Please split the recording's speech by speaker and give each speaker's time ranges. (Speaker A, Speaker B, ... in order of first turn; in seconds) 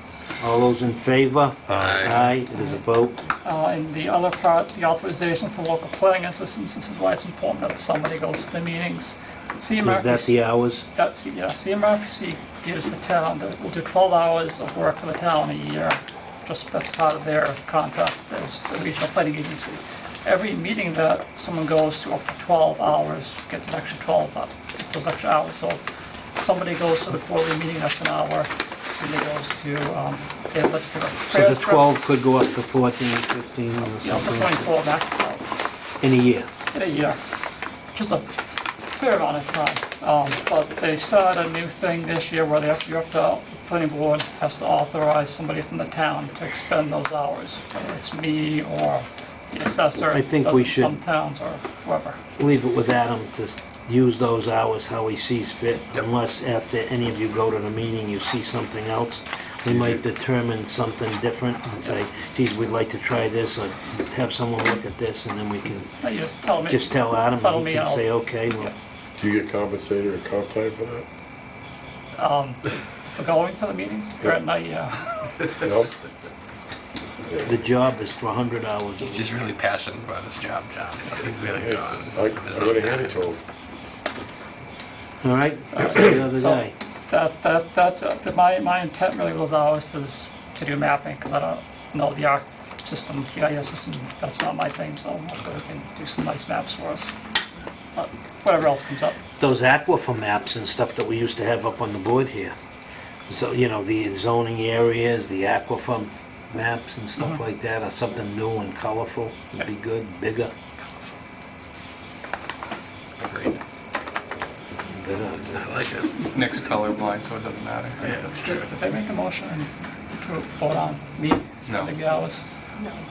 Speaker A: 0.4-3.3, 9.8-10.9, 31.3-34.7, 36.0-36.5, 50.0-51.0, 52.4-65.9, 66.6-68.7, 77.4-79.3, 85.2-86.8, 99.4-102.5, 103.3-110.5, 114.9-116.1
Speaker B: 1.7-2.2, 59.7-60.0, 69.2-71.1, 75.6-75.9, 77.2-77.6, 81.4-83.4
Speaker C: 1.8-2.4, 79.0-83.3, 110.8-111.1, 113.2-113.6, 115.6-116.2
Speaker D: 3.4-10.4, 10.9-25.8, 26.4-32.2, 33.9-35.4, 36.7-37.2, 37.9-38.3, 38.9-52.2, 66.0-68.7, 72.2-72.6, 73.1-75.4, 85.8-97.1, 98.0-99.2, 118.0-122.4
Speaker E: 116.3-118.3, 121.7-121.9